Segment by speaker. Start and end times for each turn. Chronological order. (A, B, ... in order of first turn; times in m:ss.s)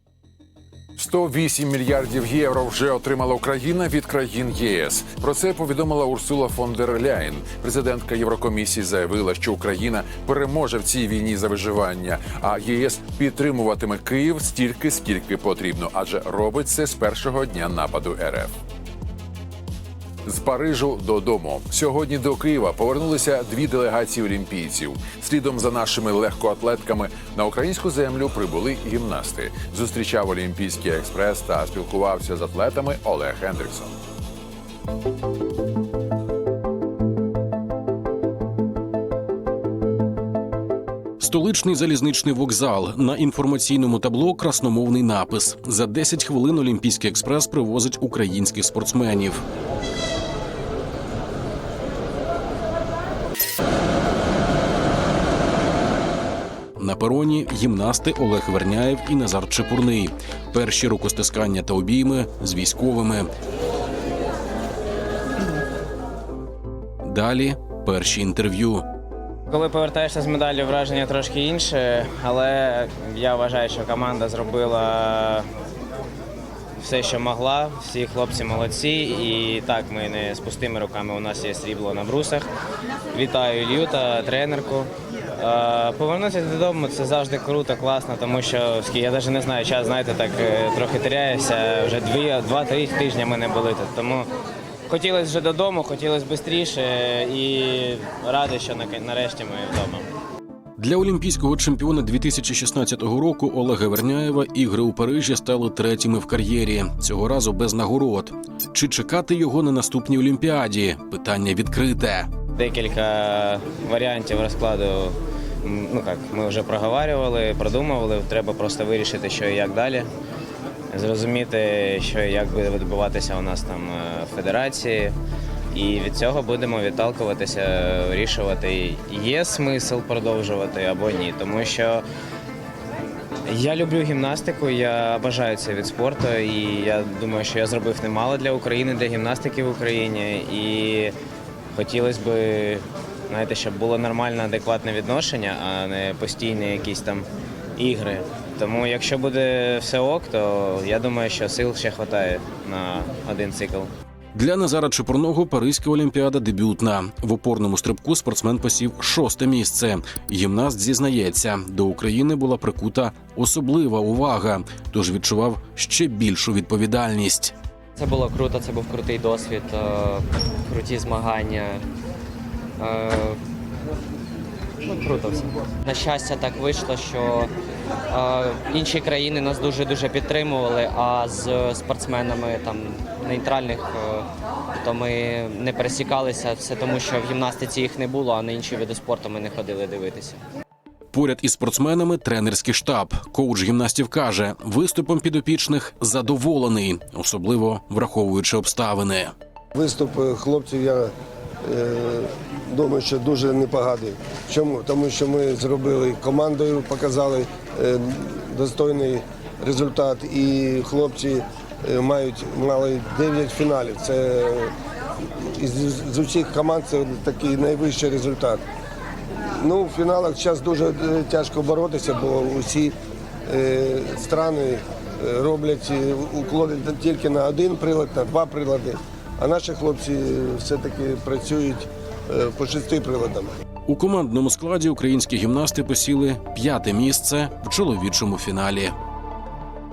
0:01.0-0:18.5 A
0:20.2-0:33.9 A
0:41.2-0:49.4 B
0:56.8-1:03.3 B
1:07.0-1:08.8 B
1:09.5-1:15.4 C
1:16.8-1:22.5 C
1:23.1-1:34.3 C
1:34.9-1:40.1 C
1:40.8-1:52.3 B
1:52.6-2:00.1 C
2:00.9-2:05.2 C
2:05.7-2:12.0 C
2:13.5-2:21.1 C
2:21.7-2:33.9 C
2:34.3-2:47.5 B
2:48.0-2:51.8 D
2:52.8-2:53.4 D
2:54.8-2:57.5 D
2:58.1-3:04.3 D
3:04.8-3:10.4 D
3:11.1-3:19.3 B
3:19.7-3:21.1 E
3:21.6-3:34.7 E
3:35.4-3:38.6 E
3:39.6-3:42.9 E
3:43.4-3:53.5 E
3:53.8-3:58.9 B